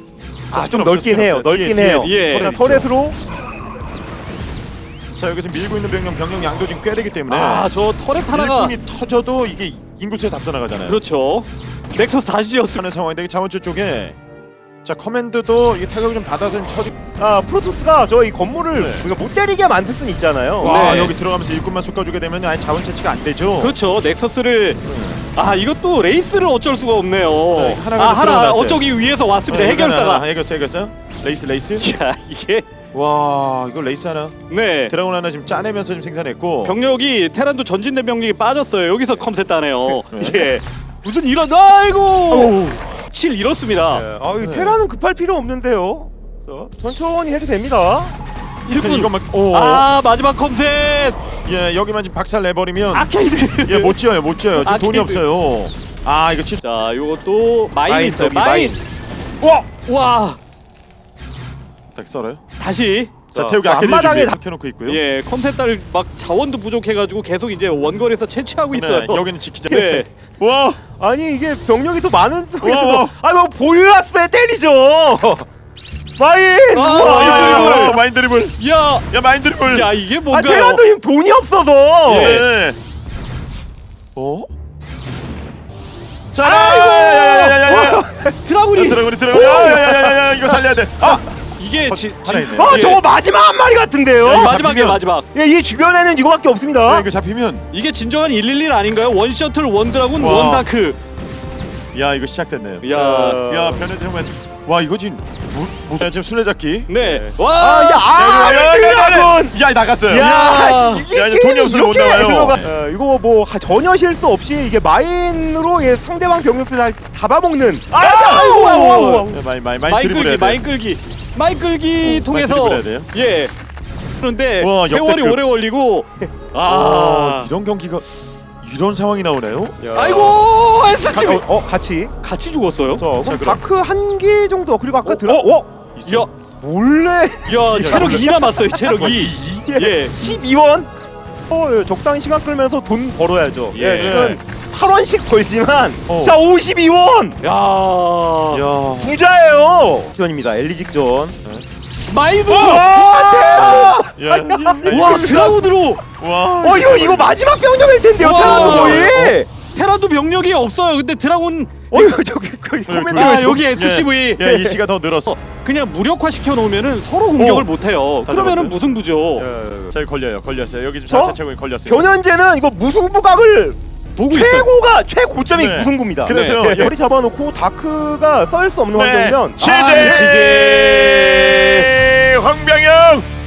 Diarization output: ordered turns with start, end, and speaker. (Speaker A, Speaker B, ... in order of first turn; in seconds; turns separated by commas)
Speaker A: 0.5-2.9, Speaker B: 0.5-3.2, Speaker C: 1.9-2.6, Speaker A: 5.2-7.7, Speaker C: 7.3-8.8, Speaker A: 8.3-11.0, Speaker C: 10.8-12.8, Speaker A: 12.8-14.2, Speaker A: 14.8-16.9, Speaker B: 17.2-20.8, Speaker A: 18.7-19.1, Speaker A: 20.6-23.8, Speaker C: 20.6-21.1, Speaker C: 23.6-24.8, Speaker A: 24.8-25.2, Speaker C: 25.3-30.2, Speaker A: 27.5-28.9, Speaker A: 29.5-31.9, Speaker C: 31.8-32.7, Speaker A: 32.9-34.4, Speaker C: 34.5-35.0, Speaker A: 34.9-36.8, Speaker C: 36.6-44.0, Speaker A: 39.9-40.5, Speaker B: 42.3-42.8, Speaker B: 43.9-48.2, Speaker A: 44.4-44.8, Speaker C: 48.7-51.2, Speaker A: 48.7-49.9, Speaker A: 51.5-56.6, Speaker C: 52.9-54.0, Speaker C: 54.5-55.2, Speaker C: 56.6-58.8, Speaker B: 57.9-58.9, Speaker C: 59.5-60.4, Speaker A: 61.9-62.4, Speaker C: 62.6-63.1, Speaker B: 63.3-64.4, Speaker A: 63.4-65.0, Speaker C: 64.9-70.1, Speaker A: 68.7-70.8, Speaker B: 70.9-75.5, Speaker A: 72.6-73.1, Speaker B: 76.2-78.0, Speaker C: 76.7-78.0, Speaker A: 76.9-79.9, Speaker C: 78.6-79.0, Speaker C: 79.6-80.8, Speaker B: 80.3-82.3, Speaker A: 82.1-82.8, Speaker C: 82.1-82.5, Speaker A: 84.2-84.5, Speaker A: 86.3-88.1, Speaker C: 86.5-87.7, Speaker B: 87.6-88.4, Speaker C: 88.4-89.0, Speaker A: 88.7-91.3, Speaker B: 89.3-90.6, Speaker C: 91.6-93.0, Speaker A: 91.8-93.0, Speaker B: 92.5-94.5, Speaker A: 94.2-95.0, Speaker C: 94.2-95.3, Speaker B: 95.3-97.1, Speaker A: 96.8-97.7, Speaker C: 97.7-101.0, Speaker A: 100.2-100.7, Speaker A: 101.9-106.9, Speaker C: 102.8-103.4, Speaker B: 102.9-103.9, Speaker C: 106.9-108.1, Speaker B: 107.0-119.4, Speaker A: 108.1-110.4, Speaker C: 110.2-111.1, Speaker A: 110.9-112.7, Speaker C: 118.0-119.3, Speaker A: 119.2-120.6, Speaker C: 119.8-123.5, Speaker A: 122.0-123.1, Speaker C: 124.2-127.5, Speaker A: 124.6-125.4, Speaker A: 126.6-128.1, Speaker A: 128.6-129.8, Speaker B: 129.8-130.5, Speaker C: 129.9-131.5, Speaker B: 131.0-132.1, Speaker C: 132.2-133.1, Speaker B: 133.0-135.7, Speaker A: 133.2-133.6, Speaker C: 135.1-135.5, Speaker A: 135.9-136.3, Speaker B: 136.6-140.9, Speaker C: 137.5-140.4, Speaker A: 137.6-138.3, Speaker B: 141.5-147.4, Speaker C: 143.7-144.4, Speaker A: 143.9-144.4, Speaker A: 146.1-146.4, Speaker C: 147.4-148.6, Speaker A: 148.5-149.2, Speaker B: 149.0-151.4, Speaker C: 152.1-154.0, Speaker B: 152.5-155.6, Speaker A: 153.5-155.5, Speaker C: 154.8-156.0, Speaker A: 156.2-157.3, Speaker B: 156.6-159.5, Speaker C: 158.2-162.1, Speaker A: 158.3-159.4, Speaker B: 161.9-163.7, Speaker A: 162.9-165.4, Speaker C: 163.1-164.5, Speaker B: 164.4-164.8, Speaker C: 165.3-169.5, Speaker A: 167.4-167.7, Speaker A: 168.2-168.8, Speaker B: 169.4-170.0, Speaker A: 169.9-172.1, Speaker B: 171.1-180.3, Speaker C: 174.2-174.7, Speaker A: 175.5-176.9, Speaker C: 176.3-176.8, Speaker A: 178.9-183.3, Speaker C: 179.6-181.9